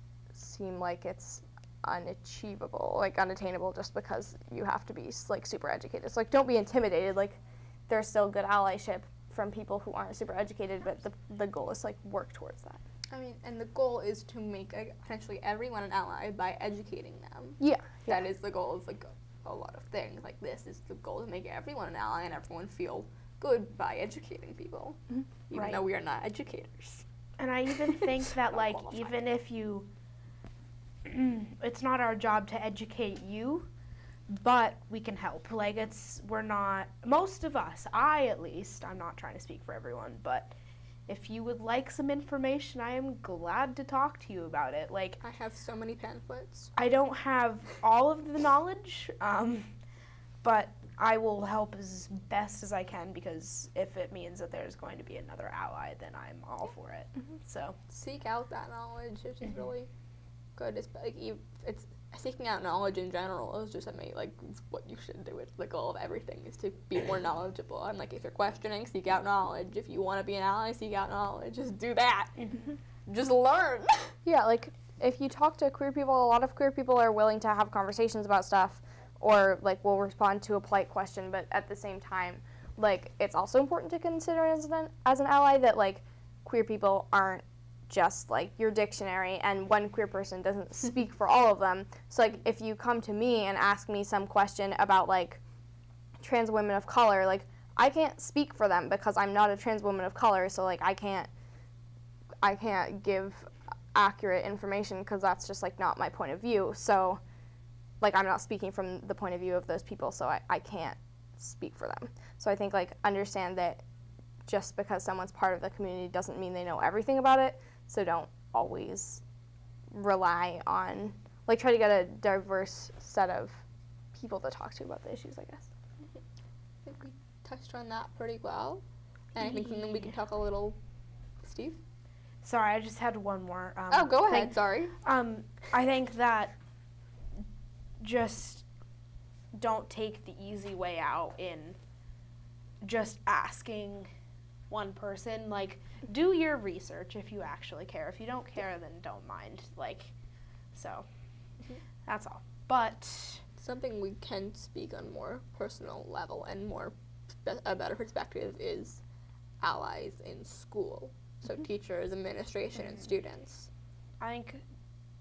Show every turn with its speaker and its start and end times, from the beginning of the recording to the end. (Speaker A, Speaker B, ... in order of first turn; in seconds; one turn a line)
Speaker A: 0.3-12.8
Speaker B: 13.1-27.1
Speaker A: 17.6-18.2
Speaker C: 25.5-25.8
Speaker C: 27.4-29.9
Speaker B: 27.9-29.2
Speaker C: 31.1-33.7
Speaker C: 34.3-40.5
Speaker C: 41.1-45.2
Speaker B: 45.2-46.7
Speaker C: 46.8-49.7
Speaker C: 50.4-57.8
Speaker B: 57.9-59.9
Speaker B: 60.6-74.2
Speaker A: 74.2-95.4
Speaker A: 96.2-101.3
Speaker A: 102.4-107.2
Speaker A: 108.0-113.8
Speaker A: 114.5-119.2
Speaker A: 119.9-123.6
Speaker A: 124.2-125.7
Speaker B: 126.8-128.8
Speaker B: 129.3-130.8
Speaker B: 131.4-131.8
Speaker C: 132.4-136.6
Speaker B: 133.9-134.9
Speaker C: 138.0-138.7
Speaker C: 139.5-141.8
Speaker C: 142.8-144.1
Speaker C: 144.7-150.1
Speaker C: 150.7-151.1
Speaker C: 152.0-153.4
Speaker B: 153.6-159.0
Speaker B: 159.6-163.7
Speaker C: 164.2-164.7